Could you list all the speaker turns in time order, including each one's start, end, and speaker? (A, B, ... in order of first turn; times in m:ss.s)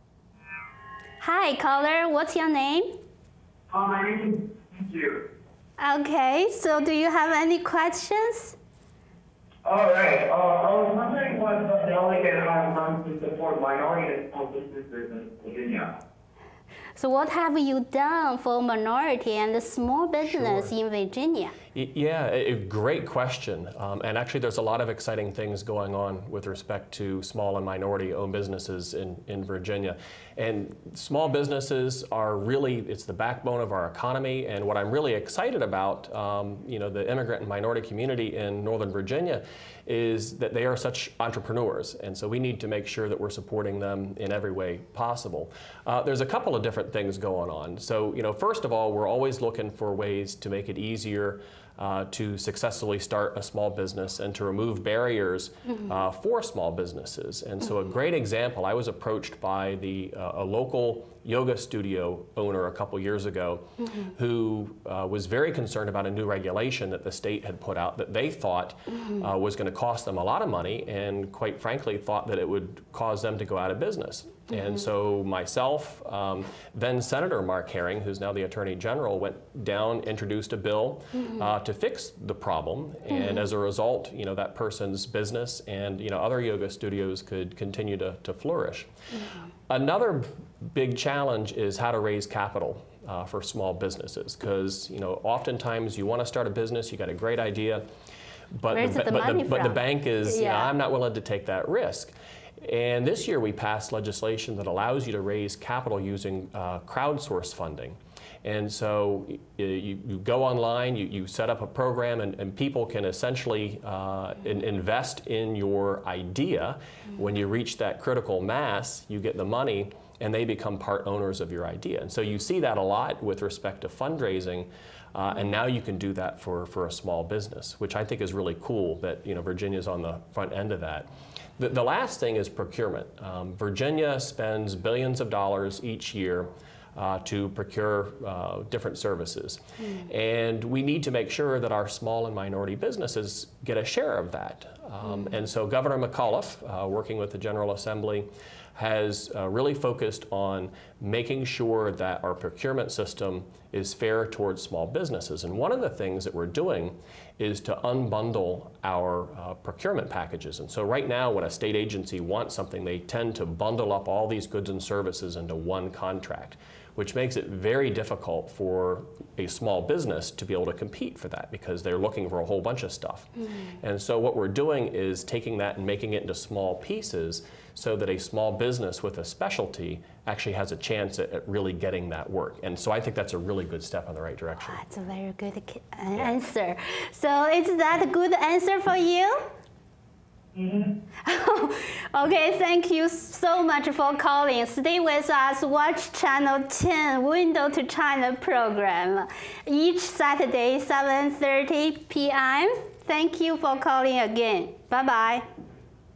0:01.2-0:03.0 A
0:03.7-0:05.2 B
0:05.8-0:08.6 A
0:09.6-0:15.9 B
0:17.0-0:21.6 A
0:20.2-0:20.7 C
0:21.7-1:28.9 C
1:29.7-1:37.8 C
1:38.5-3:04.8 C
1:38.7-1:40.7 A
3:04.7-3:09.5 A
3:10.6-3:10.9 B
3:11.2-3:25.4 A